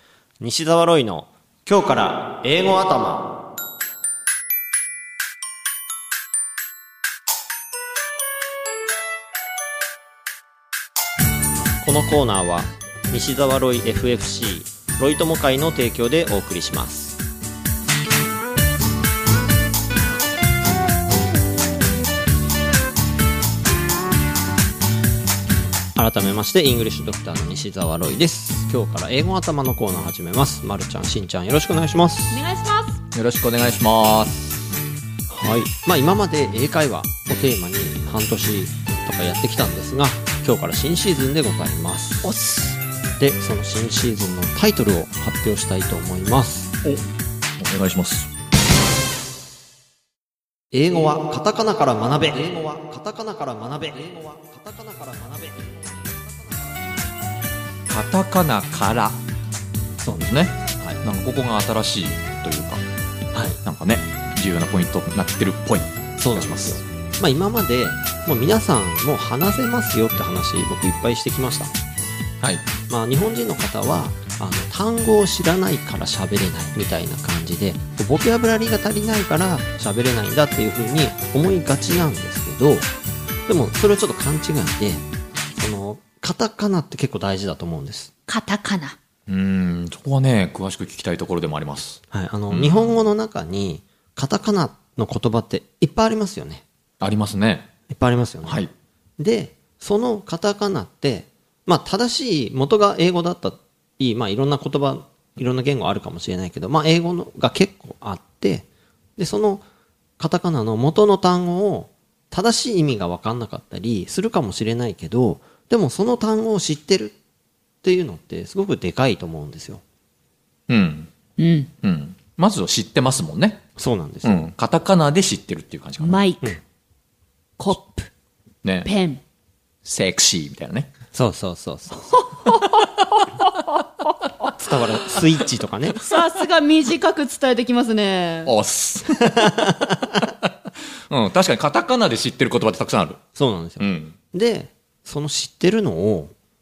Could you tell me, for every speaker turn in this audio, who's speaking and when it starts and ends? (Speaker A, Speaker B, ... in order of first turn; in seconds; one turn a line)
Speaker A: 0.4-3.4
Speaker A: 11.8-17.2
Speaker A: 25.9-32.4
Speaker B: 32.3-33.0
Speaker C: 33.1-34.5
Speaker A: 35.3-42.3
Speaker B: 42.2-42.8
Speaker A: 43.2-46.7
Speaker C: 47.6-48.3
Speaker A: 50.7-56.7
Speaker C: 57.9-59.2
Speaker A: 60.0-61.0
Speaker C: 60.2-62.8
Speaker A: 63.3-63.6
Speaker C: 63.6-66.8
Speaker A: 66.2-71.7
Speaker C: 72.4-72.7
Speaker A: 72.9-82.8
Speaker A: 83.5-85.0
Speaker A: 85.5-88.1
Speaker B: 88.3-89.0
Speaker C: 89.3-92.9
Speaker A: 92.1-96.6
Speaker C: 97.0-97.7
Speaker A: 97.9-98.6
Speaker C: 98.4-98.7
Speaker A: 99.2-109.6
Speaker A: 110.2-117.1
Speaker A: 117.8-119.8
Speaker C: 120.7-121.1
Speaker B: 121.4-121.7
Speaker C: 121.8-123.6
Speaker A: 123.8-124.5
Speaker C: 124.2-126.2
Speaker B: 126.0-126.6
Speaker B: 127.6-128.1
Speaker B: 128.8-129.2
Speaker C: 129.8-130.9
Speaker A: 131.1-132.2
Speaker B: 132.1-132.8
Speaker A: 134.6-136.0
Speaker B: 135.9-138.5
Speaker C: 138.4-140.5
Speaker A: 139.5-139.8
Speaker C: 141.1-143.2
Speaker A: 143.3-146.3
Speaker C: 143.8-144.1